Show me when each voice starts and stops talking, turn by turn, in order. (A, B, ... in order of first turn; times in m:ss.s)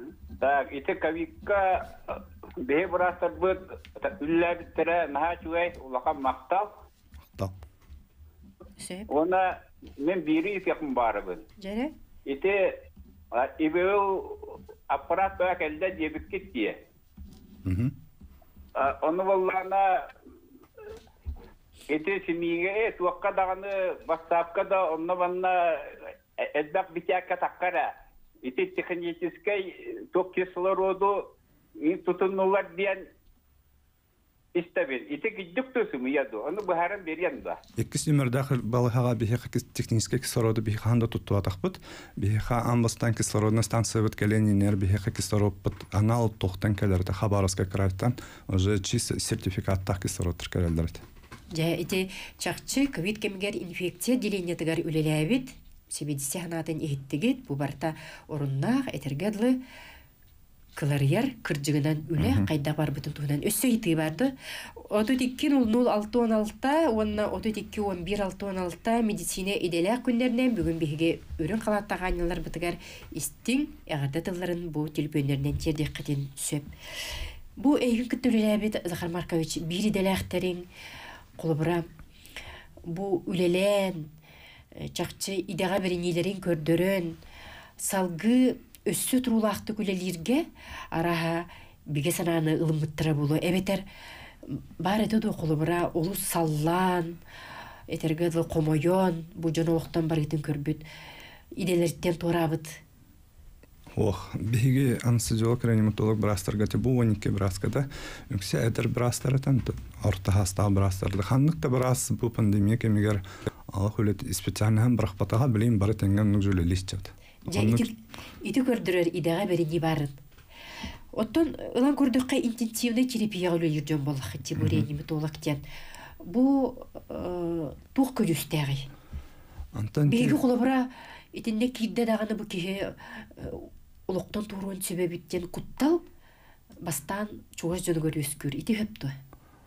0:00.4-0:06.7 A
0:08.8-0:09.1 B
0:09.1-0:11.5 A
0:11.6-0:11.9 B
0:12.3-0:12.8 A
0:13.3-0:16.8 A
0:17.6-0:18.0 C
0:18.8-0:20.1 A
0:21.9-0:33.1 A
0:34.6-0:37.6 A
0:37.8-0:51.0 C
0:51.5-0:59.6 B
1:00.8-1:16.7 B
1:02.2-1:02.5 C
1:17.6-1:20.7 B
1:21.4-1:21.9 B
1:22.8-1:24.1 B
1:24.8-1:27.2 B
1:27.8-1:33.8 B
1:34.5-1:37.2 B
1:37.9-1:40.8 B
1:41.6-1:42.8 B
1:43.9-1:57.9 C
1:57.5-2:00.2 B
2:01.1-2:05.6 B
2:04.6-2:04.9 C
2:06.2-2:08.9 B
2:09.7-2:10.4 C
2:10.1-2:16.0 B
2:16.8-2:19.2 B